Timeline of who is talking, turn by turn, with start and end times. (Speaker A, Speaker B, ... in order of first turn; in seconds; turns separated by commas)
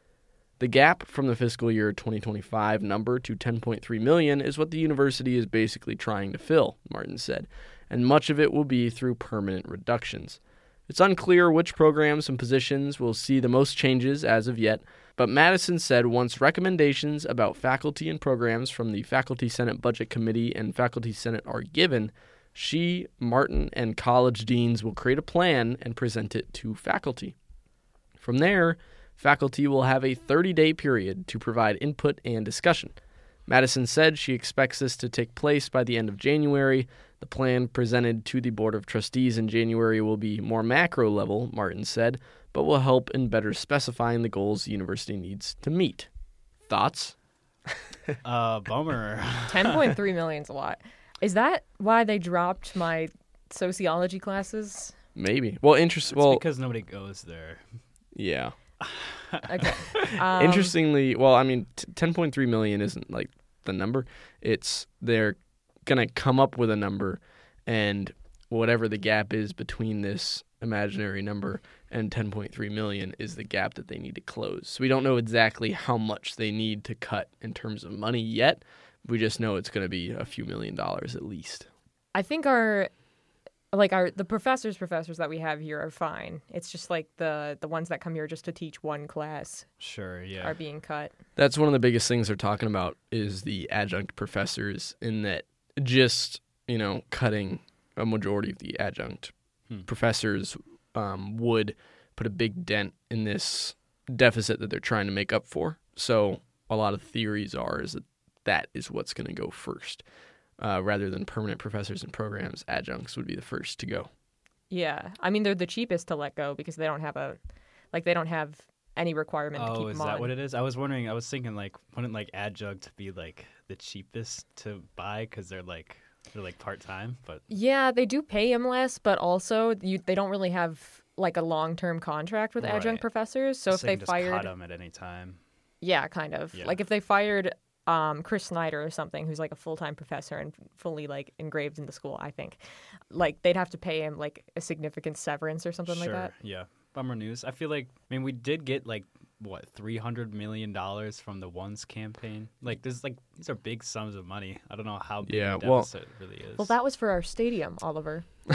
Speaker A: 0.6-27.3, Speaker A: 28.2-32.9, Speaker A: 33.5-46.1, Speaker A: 46.7-47.1, Speaker B: 48.2-49.9, Speaker C: 49.5-54.9, Speaker A: 55.1-56.4, Speaker B: 56.1-57.6, Speaker A: 58.1-58.5, Speaker B: 58.8-60.1, Speaker C: 59.5-60.8, Speaker A: 60.3-81.7, Speaker C: 82.1-82.9, Speaker C: 83.7-89.7, Speaker B: 89.8-90.5, Speaker C: 90.4-91.1, Speaker A: 91.3-99.3, Speaker A: 99.8-110.0, Speaker A: 110.6-114.1, Speaker C: 114.7-117.4, Speaker C: 117.9-120.3, Speaker B: 119.5-127.4, Speaker C: 127.5-134.5, Speaker B: 132.6-133.0, Speaker B: 133.7-135.4, Speaker C: 135.8-146.3, Speaker B: 145.9-156.7, Speaker A: 155.2-155.9, Speaker C: 156.6-158.2